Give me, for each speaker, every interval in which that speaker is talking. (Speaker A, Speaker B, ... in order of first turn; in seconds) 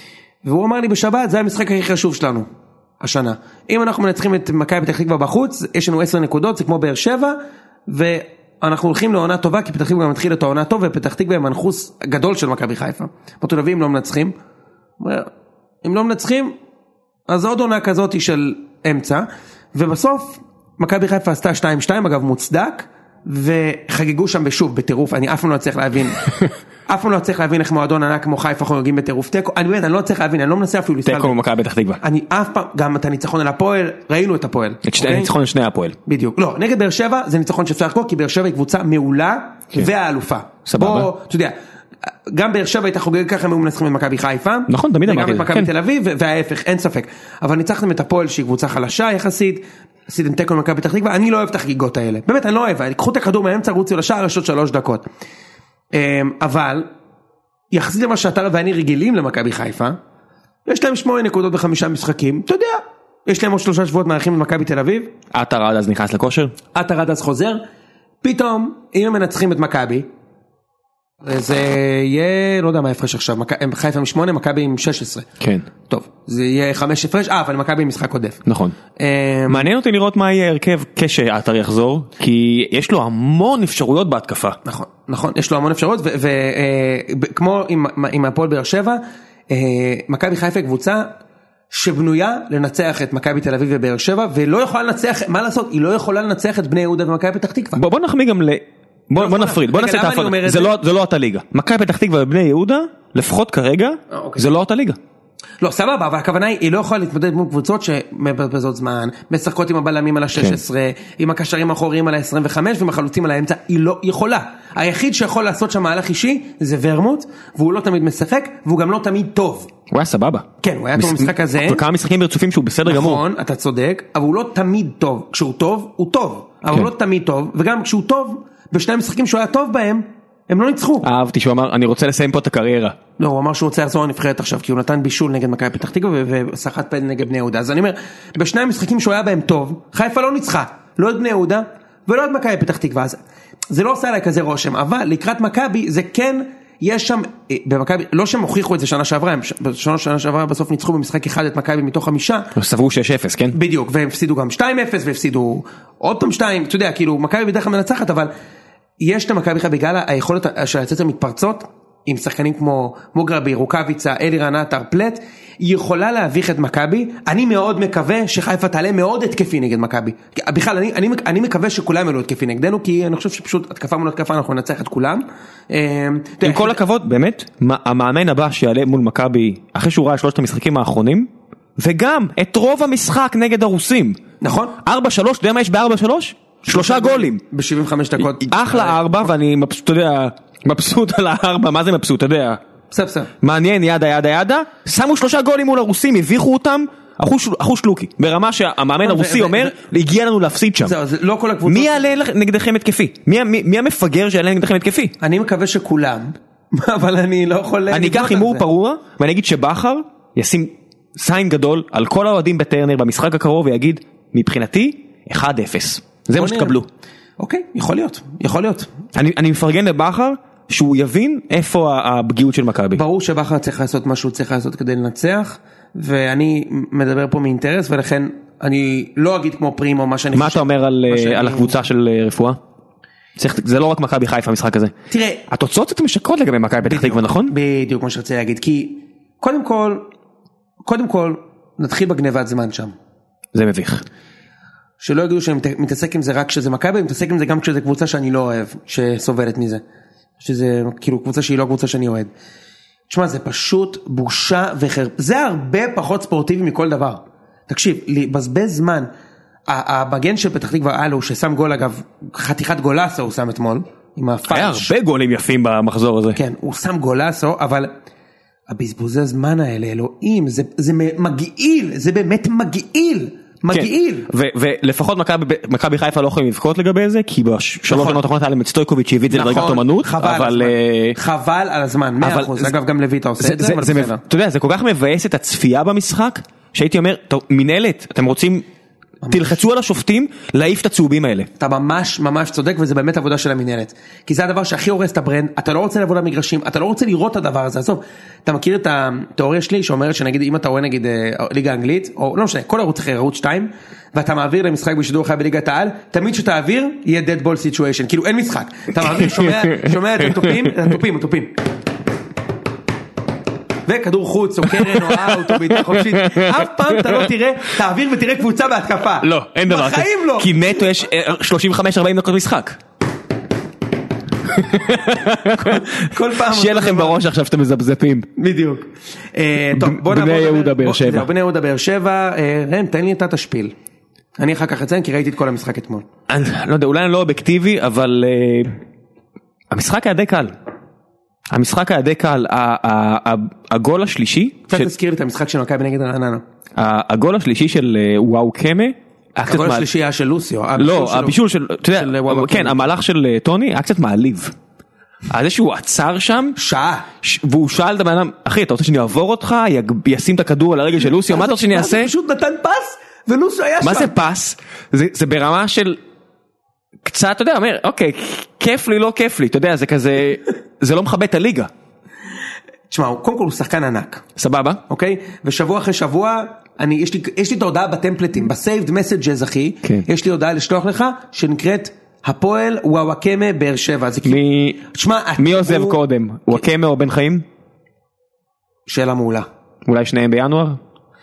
Speaker A: 0.4-2.5, 3.0-14.3, 15.0-15.3, 15.8-16.5, 17.3-31.4, 32.0-35.3, 36.0-55.0, 55.9-56.9, 57.7-60.0, 60.6-65.1, 66.7-67.6, 68.2-70.1, 71.2-75.3, 75.9-78.4, 79.0-79.7, 84.6-91.1, 91.7-97.8, 99.2-100.8, 104.1-104.5, 105.6-119.7, 120.6-121.8, 122.8-131.1, 133.2-143.2, 143.7-152.5, 153.5-158.3, 159.0-176.8, 184.4-184.8, 186.6-189.0, 192.9-193.3, 199.0-199.8, 200.8-202.1, 205.2-208.6, 216.3-216.7, 217.4-218.9, 222.9-231.8, 235.1-235.4, 236.8-240.1, 240.8-242.9, 245.0-249.8, 250.4-252.3, 253.1-259.1, 259.7-264.9, 266.4-267.9, 268.7-274.3, 277.9-278.2, 279.3-284.2, 289.2-289.6, 291.6-311.5, 313.9-320.5, 325.5-327.2, 328.4-333.7, 334.4-336.0, 344.7-346.4, 349.4-351.4, 351.9-352.9, 356.6-357.1, 361.1-364.1, 372.9-374.2, 374.9-386.0, 388.9-389.5
Speaker B: 31.0-32.0, 34.8-36.0, 40.6-41.1, 44.7-45.7, 65.3-66.5, 75.4-75.7, 78.5-78.7, 79.5-84.6, 97.8-105.0, 110.3-110.6, 119.9-123.2, 131.0-133.0, 152.5-153.6, 176.4-184.2, 184.8-187.4, 188.3-192.6, 193.4-200.9, 201.7-205.1, 207.9-216.9, 219.1-223.0, 230.3-232.6, 233.4-234.9, 235.5-237.5, 243.5-244.0, 264.5-266.4, 273.7-281.2, 282.2-282.7, 283.4-288.6, 289.3-291.5, 309.0-310.7, 314.7-317.3, 319.2-322.8, 324.4-328.3, 329.7-331.3, 336.3-338.7, 339.7-340.5, 341.5-344.9, 346.8-349.9, 350.8-354.5, 355.3-356.6, 357.2-362.1, 363.8-366.0, 367.0-371.7, 374.4-374.8, 384.2-384.8, 385.4-387.4, 389.9-390.8